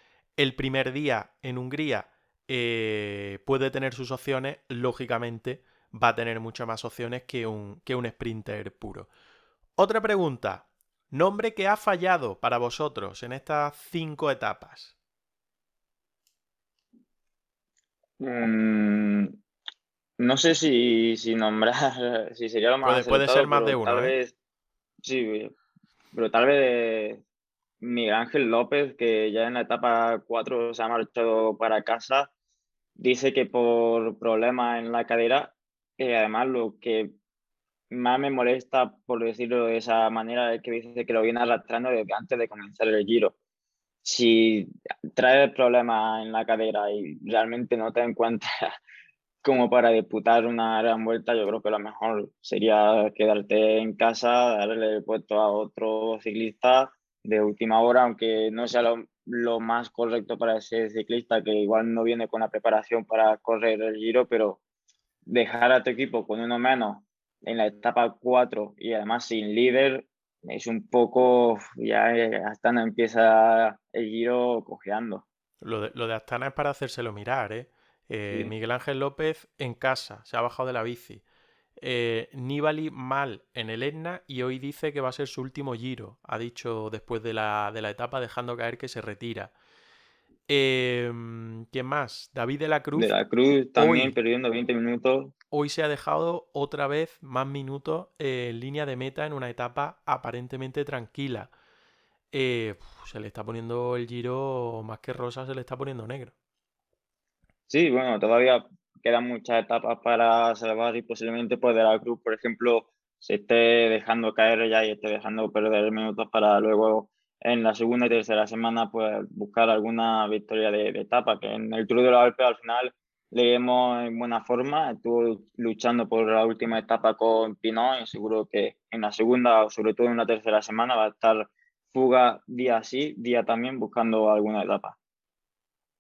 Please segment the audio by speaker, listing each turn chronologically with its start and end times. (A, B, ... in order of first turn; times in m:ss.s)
0:00.4-0:09.1 A
0:09.8-0:14.9 A
0:18.2-0:19.4 B
0:20.2-0:24.3 B
0:22.8-0:24.1 A
0:25.0-0:25.5 B
0:26.1-0:27.2 B
0:27.8-0:32.3 B
0:33.0-0:37.1 B
0:37.9-0:43.4 B
0:44.0-0:48.7 B
0:49.4-1:04.6 B
1:05.3-1:15.2 B
1:15.6-1:21.2 A
1:21.8-1:29.5 A
1:30.5-1:33.1 A
1:33.0-1:35.3 B
1:33.8-1:34.2 A
1:35.5-1:41.5 A
1:42.3-1:46.3 A
1:47.7-2:15.0 B